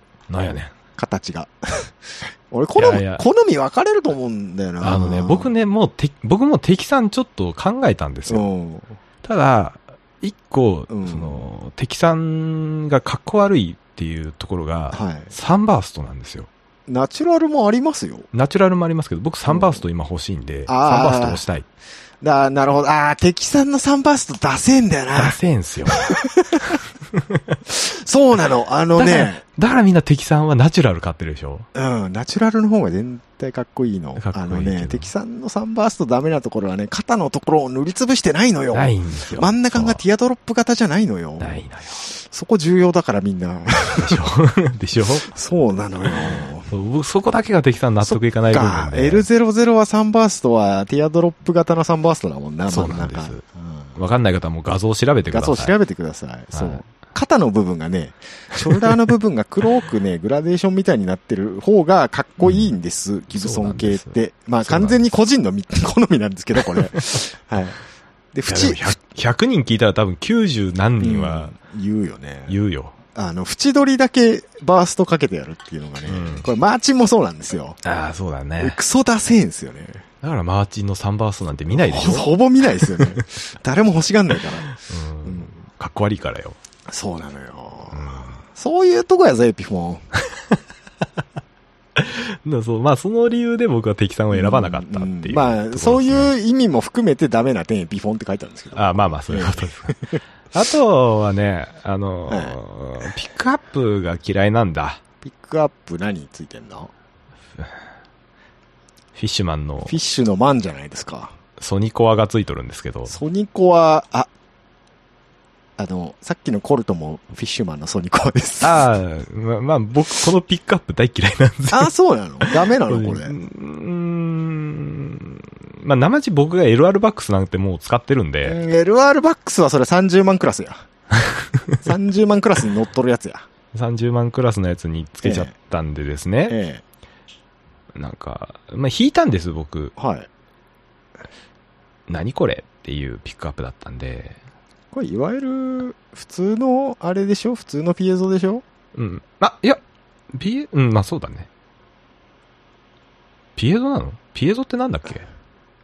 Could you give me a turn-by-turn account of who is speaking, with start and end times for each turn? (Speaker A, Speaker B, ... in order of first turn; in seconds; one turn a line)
Speaker A: 0.3-0.7
Speaker B: 0.9-5.5
Speaker A: 2.8-3.2
Speaker A: 4.8-8.4
Speaker B: 8.3-9.0
Speaker A: 9.2-16.5
Speaker B: 10.9-11.4
Speaker B: 14.9-15.3
Speaker B: 16.9-18.3
Speaker A: 18.3-21.6
Speaker B: 19.5-19.8
Speaker B: 20.7-21.4
Speaker B: 22.2-26.8
Speaker A: 25.1-26.1
Speaker A: 27.1-27.6
Speaker B: 27.7-29.4
Speaker A: 29.0-31.7
Speaker B: 31.7-44.2
Speaker A: 34.2-35.1
Speaker A: 38.7-40.0
Speaker A: 41.4-42.0
Speaker A: 43.9-45.3
Speaker B: 45.3-46.7
Speaker A: 46.0-49.3
Speaker B: 48.0-54.0
Speaker A: 52.7-53.4
Speaker A: 54.0-55.7
Speaker B: 55.3-67.8
Speaker A: 56.5-56.8
Speaker A: 62.4-62.7
Speaker A: 63.3-65.0
Speaker B: 68.3-69.0
Speaker A: 68.5-71.5
Speaker B: 71.0-72.6
Speaker A: 72.5-73.0
Speaker B: 73.1-77.8
Speaker A: 76.0-76.5
Speaker A: 77.8-78.8
Speaker B: 78.6-80.0
Speaker A: 80.2-83.2
Speaker B: 81.7-85.5
Speaker A: 84.7-86.6
Speaker B: 86.9-90.0
Speaker A: 87.9-88.4
Speaker A: 91.9-96.3
Speaker B: 94.3-100.2
Speaker A: 98.7-105.0
Speaker B: 102.3-102.6
Speaker B: 105.2-106.9
Speaker A: 109.1-109.9
Speaker B: 109.8-111.3
Speaker A: 111.6-113.1
Speaker B: 113.1-114.3
Speaker B: 115.8-118.9
Speaker A: 118.6-128.6
Speaker B: 121.7-123.3
Speaker B: 128.4-130.8
Speaker B: 131.8-133.4
Speaker A: 133.7-136.6
Speaker B: 135.2-135.5
Speaker B: 136.5-136.8
Speaker A: 137.9-139.9
Speaker B: 140.0-140.3
Speaker A: 142.1-144.4
Speaker B: 144.9-148.6
Speaker A: 148.9-149.8
Speaker A: 150.3-151.5
Speaker A: 153.6-155.3